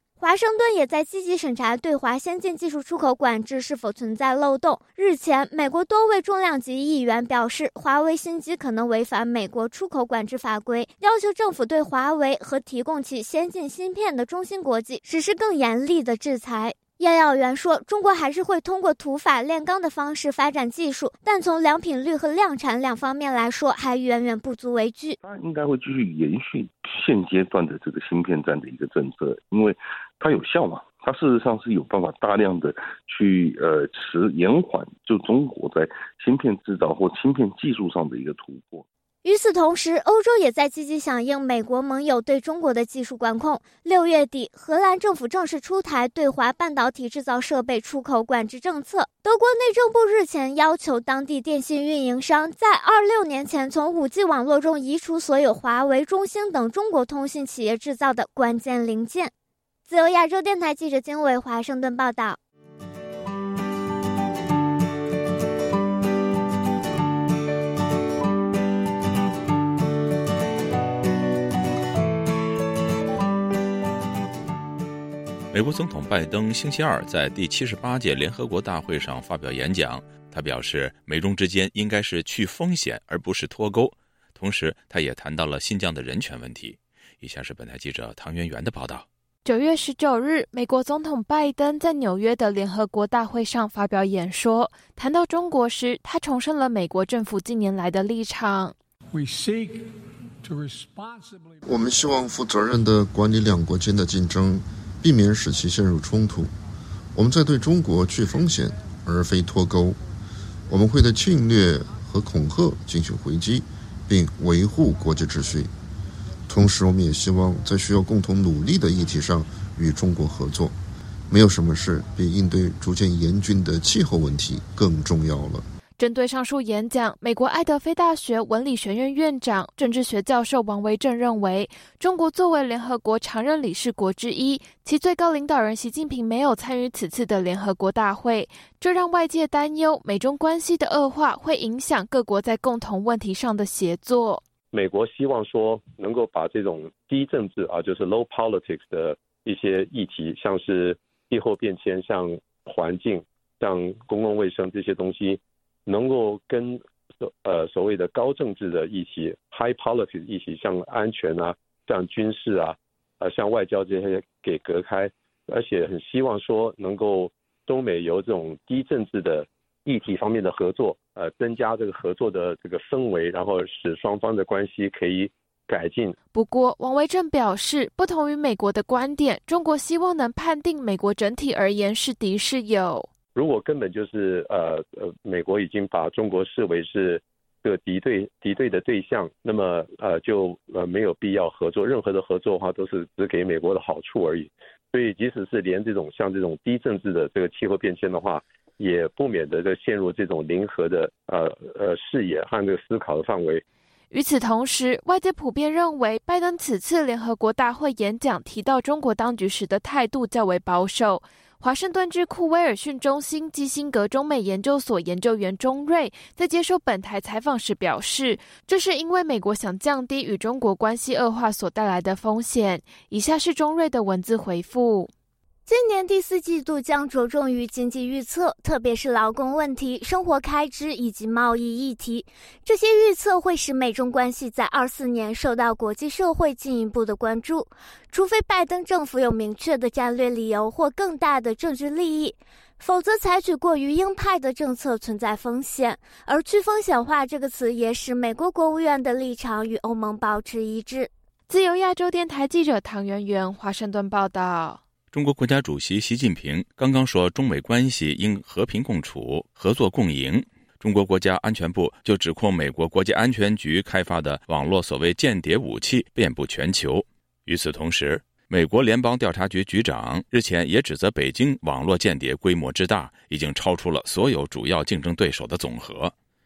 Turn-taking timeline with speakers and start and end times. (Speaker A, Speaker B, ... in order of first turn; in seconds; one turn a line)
Speaker A: 0.2-25.2
Speaker B: 25.2-38.9
Speaker A: 39.2-59.3
Speaker A: 59.9-62.4
Speaker C: 75.5-89.0
Speaker D: 89.4-98.7
Speaker E: 101.6-106.5
Speaker E: 107.1-110.0
Speaker E: 110.7-115.7
Speaker E: 116.5-120.8
Speaker E: 121.3-125.6
Speaker D: 126.0-144.4
Speaker F: 144.7-176.2
Speaker D: 176.3-183.1
Speaker F: 183.3-203.6
Speaker D: 204.1-225.1
Speaker A: 225.7-251.1
Speaker D: 251.5-254.8
Speaker C: 255.1-276.1